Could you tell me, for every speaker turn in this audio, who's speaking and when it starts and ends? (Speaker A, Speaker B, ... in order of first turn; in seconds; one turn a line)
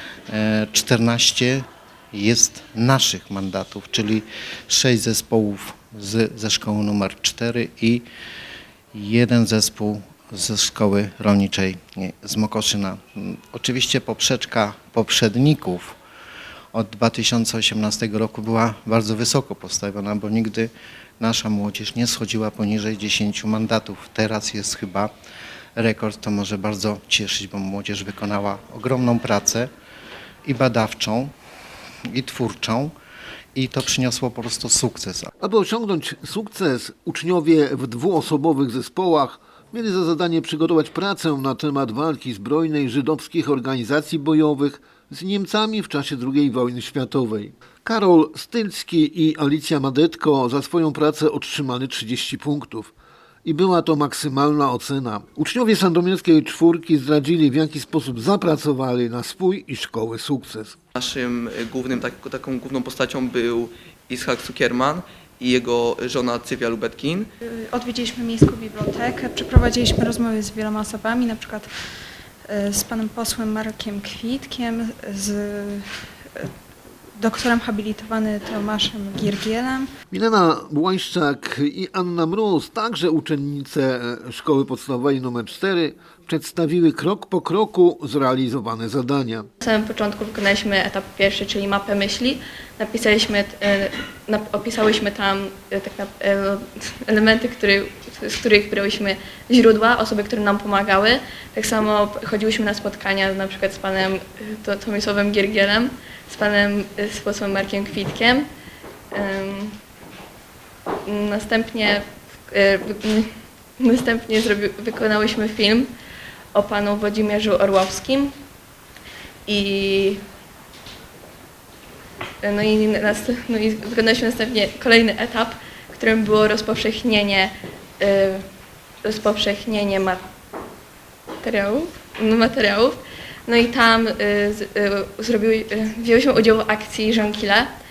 Speaker A: 0.3-8.1
Speaker A: 8.9-16.0
Speaker A: 16.7-25.1
Speaker A: 25.8-29.7
Speaker A: 30.4-31.3
Speaker A: 32.1-32.9
Speaker A: 33.5-35.3
Speaker B: 35.4-52.9
Speaker B: 53.4-60.8
Speaker C: 60.9-67.3
Speaker D: 67.4-71.7
Speaker D: 72.4-76.5
Speaker D: 77.1-79.9
Speaker B: 80.1-89.5
Speaker E: 89.6-108.5
Speaker E: 109.1-109.7
Speaker E: 111.0-115.9
Speaker E: 116.5-118.3
Speaker E: 119.5-120.2
Speaker E: 122.4-128.4
Speaker E: 129.0-130.2
Speaker E: 131.4-137.7